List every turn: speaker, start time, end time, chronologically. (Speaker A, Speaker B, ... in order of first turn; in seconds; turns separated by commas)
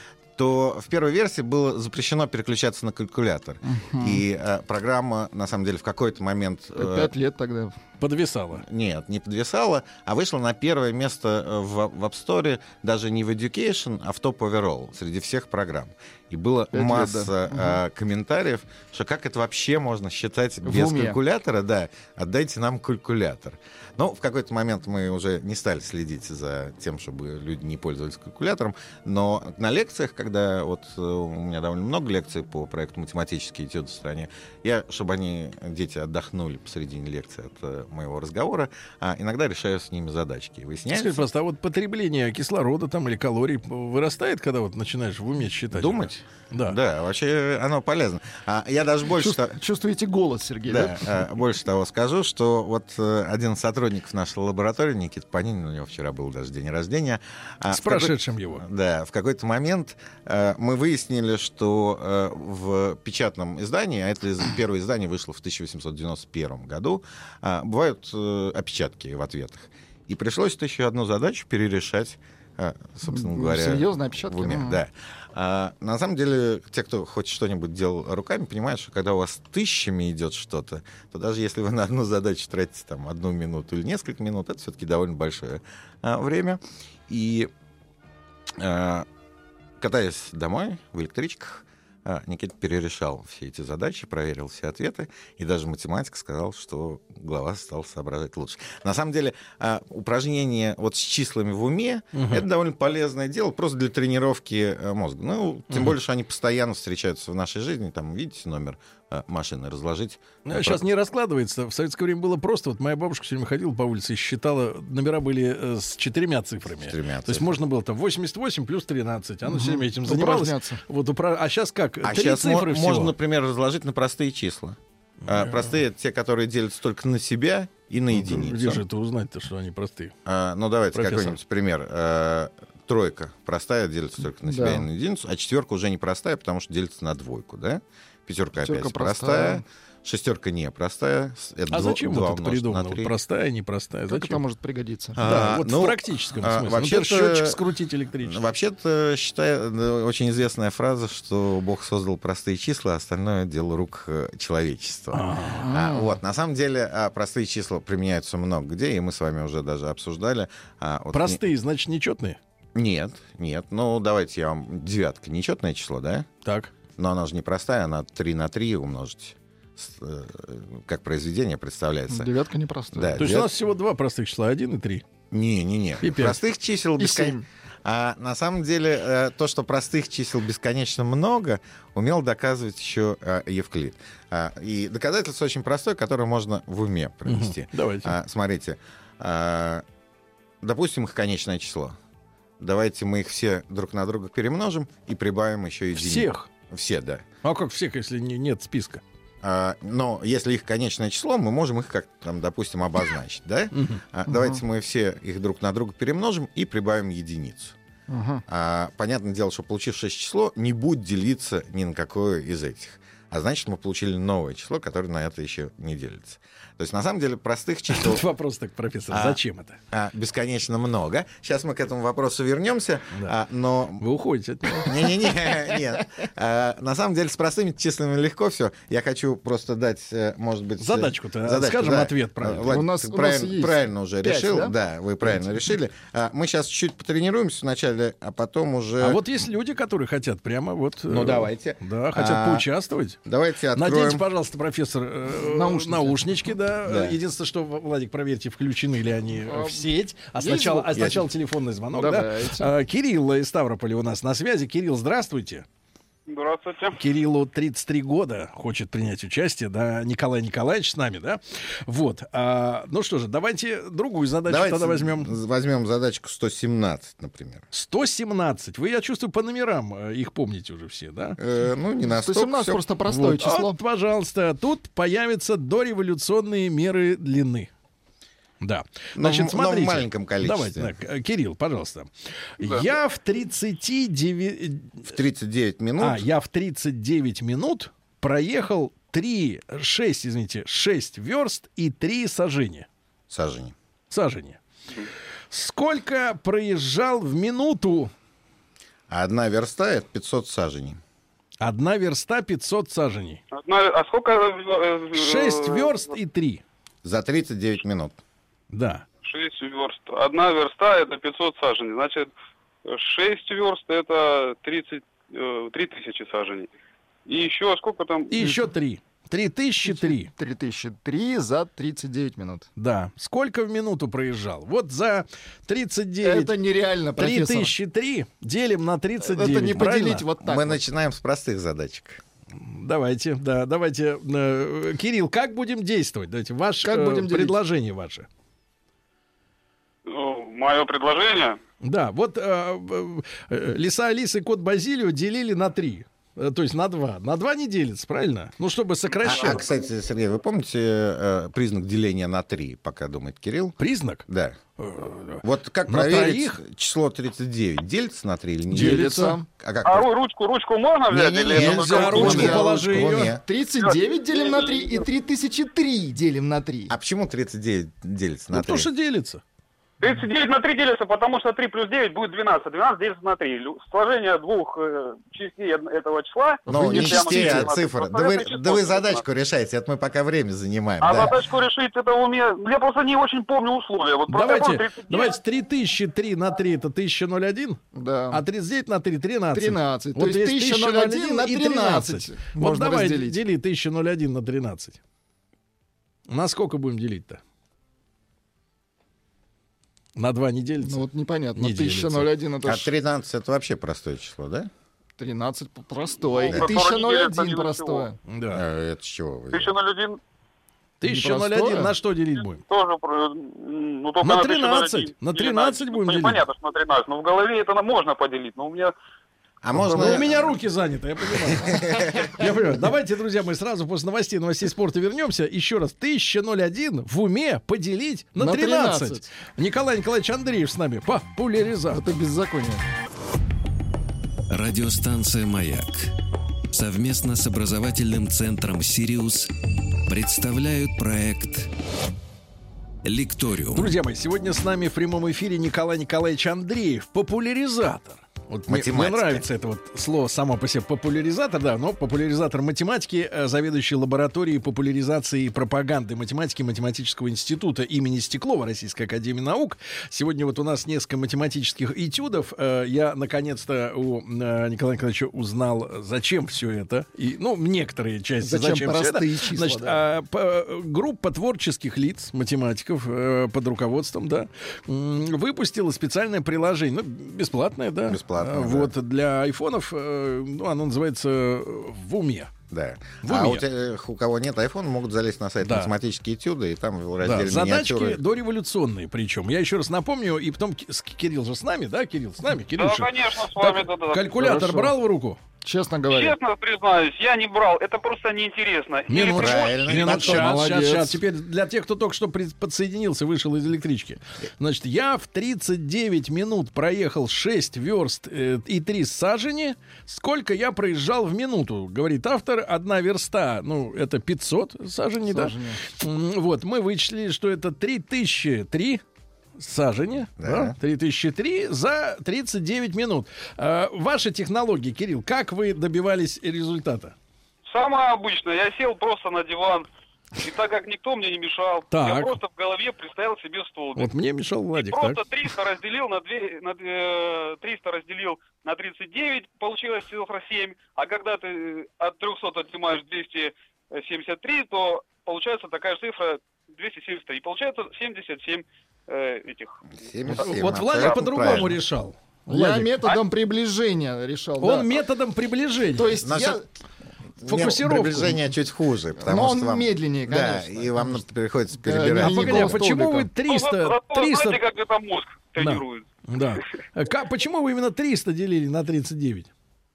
Speaker A: 0.4-7.1, Speaker B: 3.6-4.2, Speaker B: 6.8-7.8, Speaker C: 8.0-8.6, Speaker A: 8.6-41.2, Speaker B: 16.7-17.8, Speaker B: 20.6-21.2, Speaker C: 40.9-46.8, Speaker A: 45.7-49.6, Speaker B: 49.2-51.1, Speaker A: 50.7-87.5, Speaker C: 57.7-58.6, Speaker B: 73.0-74.8, Speaker A: 88.5-89.1, Speaker A: 89.8-110.8, Speaker C: 102.1-102.5, Speaker C: 110.5-123.1, Speaker A: 116.8-117.6, Speaker B: 119.4-120.8, Speaker A: 122.0-128.8, Speaker C: 125.2-125.7, Speaker C: 128.1-130.1, Speaker A: 130.2-143.1, Speaker C: 130.9-131.4, Speaker B: 134.4-134.8, Speaker B: 138.6-139.6, Speaker C: 141.7-144.4, Speaker B: 144.1-145.2, Speaker A: 145.1-147.6, Speaker C: 145.2-148.4, Speaker A: 148.2-161.4, Speaker C: 155.1-155.6, Speaker B: 155.5-156.2, Speaker C: 161.1-162.4, Speaker A: 162.7-166.3, Speaker C: 166.4-166.7, Speaker A: 167.0-172.3, Speaker B: 172.1-173.3, Speaker A: 172.9-173.5, Speaker C: 173.2-175.0, Speaker A: 175.3-189.8, Speaker C: 176.0-176.4, Speaker B: 177.0-177.4, Speaker C: 187.2-188.1, Speaker A: 190.6-192.0, Speaker A: 192.6-197.3, Speaker C: 195.9-196.5, Speaker C: 197.4-199.0, Speaker A: 199.4-207.8, Speaker C: 203.7-204.0, Speaker B: 204.3-204.6, Speaker B: 208.1-208.4, Speaker A: 208.5-218.2, Speaker C: 217.9-219.8, Speaker A: 219.1-219.4, Speaker A: 219.9-224.1, Speaker C: 224.0-224.9, Speaker A: 224.8-239.2, Speaker C: 230.8-232.8, Speaker B: 232.7-235.5, Speaker C: 239.0-243.2, Speaker A: 241.1-242.7, Speaker A: 243.2-244.2, Speaker C: 243.7-255.6, Speaker B: 245.3-246.2, Speaker A: 246.8-247.2, Speaker B: 249.4-249.8, Speaker B: 250.4-251.2, Speaker B: 251.9-252.7, Speaker D: 256.3-257.0, Speaker C: 256.9-265.3, Speaker A: 264.5-267.6, Speaker C: 267.7-271.4, Speaker A: 271.4-272.8, Speaker B: 272.0-273.8, Speaker C: 273.1-277.7, Speaker C: 278.6-285.1, Speaker A: 279.1-280.9, Speaker A: 285.1-286.2, Speaker C: 286.0-292.9, Speaker A: 293.3-293.7, Speaker C: 294.1-294.6, Speaker C: 295.5-298.1, Speaker A: 299.1-301.0, Speaker C: 301.6-303.4, Speaker D: 303.5-306.0, Speaker C: 305.1-306.6, Speaker A: 307.0-308.2, Speaker C: 308.7-309.0, Speaker D: 309.2-312.3, Speaker D: 312.8-316.7, Speaker D: 317.3-318.4, Speaker C: 318.3-320.3, Speaker B: 319.8-322.7, Speaker C: 322.8-326.5, Speaker B: 326.2-327.7, Speaker C: 327.2-330.2, Speaker B: 329.2-330.8, Speaker A: 330.4-332.2, Speaker C: 332.6-338.3, Speaker B: 336.8-337.6, Speaker D: 340.1-341.6, Speaker C: 341.8-349.6, Speaker A: 349.2-354.6, Speaker C: 353.8-354.2, Speaker C: 354.8-356.6, Speaker A: 355.4-360.1, Speaker C: 358.7-359.4, Speaker B: 358.7-359.4, Speaker D: 359.8-362.5, Speaker A: 361.1-363.4, Speaker C: 361.5-363.3, Speaker B: 362.1-366.9, Speaker D: 363.8-365.0, Speaker A: 366.9-368.9, Speaker C: 368.5-369.4, Speaker D: 370.0-379.2, Speaker B: 376.6-377.7, Speaker A: 376.7-381.4, Speaker D: 381.0-385.4, Speaker C: 384.3-395.0, Speaker B: 387.9-388.4, Speaker B: 389.5-393.4, Speaker C: 396.3-397.4, Speaker C: 400.1-401.0, Speaker B: 400.8-402.9, Speaker C: 401.6-402.3, Speaker A: 402.6-404.7, Speaker B: 405.2-408.2, Speaker D: 406.2-408.1, Speaker C: 408.3-408.6, Speaker A: 408.5-409.7, Speaker D: 409.5-410.2, Speaker C: 411.0-412.6, Speaker B: 411.0-411.9, Speaker D: 412.7-418.9, Speaker C: 414.2-416.4, Speaker A: 419.6-420.6, Speaker C: 419.7-432.1, Speaker A: 421.3-422.4, Speaker B: 428.4-429.3, Speaker B: 431.9-432.8, Speaker E: 434.5-436.1, Speaker E: 436.7-439.5, Speaker E: 440.1-441.7, Speaker E: 443.0-443.9, Speaker C: 443.7-482.5, Speaker A: 448.7-449.4, Speaker B: 468.4-470.0, Speaker A: 478.1-478.9, Speaker A: 482.7-488.2, Speaker C: 483.2-483.6, Speaker C: 485.6-485.9, Speaker C: 487.2-495.4, Speaker D: 492.8-494.3, Speaker B: 494.4-494.9, Speaker B: 495.6-496.4, Speaker D: 496.1-500.1, Speaker C: 499.1-519.0, Speaker A: 499.2-500.6, Speaker B: 500.1-501.2, Speaker B: 515.3-515.8, Speaker C: 519.6-527.1, Speaker A: 520.4-520.7, Speaker D: 527.7-534.1, Speaker C: 531.9-532.4, Speaker C: 534.0-535.2, Speaker D: 534.7-549.8, Speaker A: 550.0-551.8, Speaker C: 550.3-552.9, Speaker B: 552.5-555.0, Speaker C: 554.6-556.2, Speaker B: 556.0-556.6, Speaker A: 556.2-556.6, Speaker A: 557.4-562.8, Speaker C: 557.4-558.4, Speaker B: 559.2-561.2, Speaker B: 561.8-563.3, Speaker C: 562.2-564.6, Speaker D: 563.5-566.0, Speaker C: 565.6-569.5